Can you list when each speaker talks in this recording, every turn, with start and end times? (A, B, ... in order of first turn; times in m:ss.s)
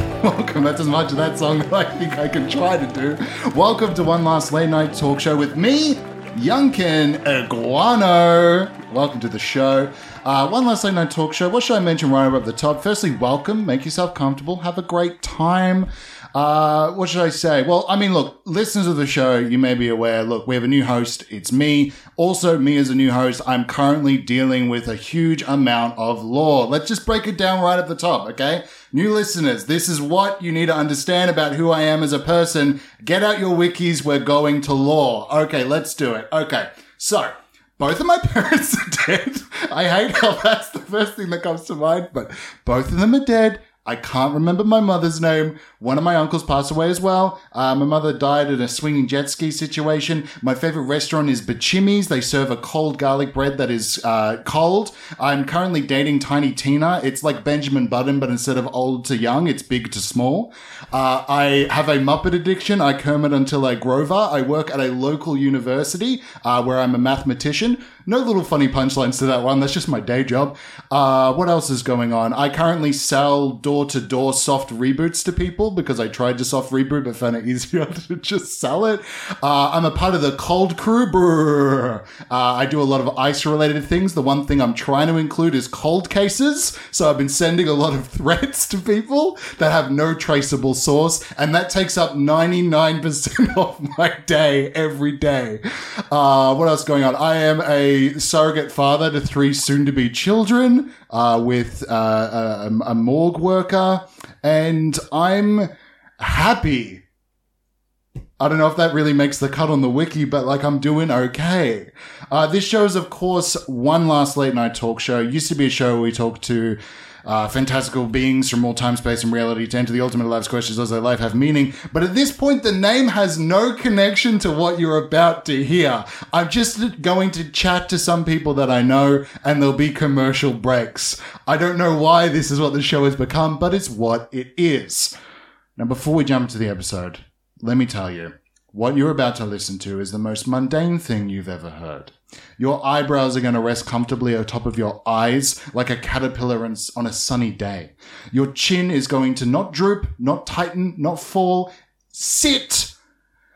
0:00.2-1:47.0 A
1:48.4-2:15.1 A
2:15.8-2:32.9 A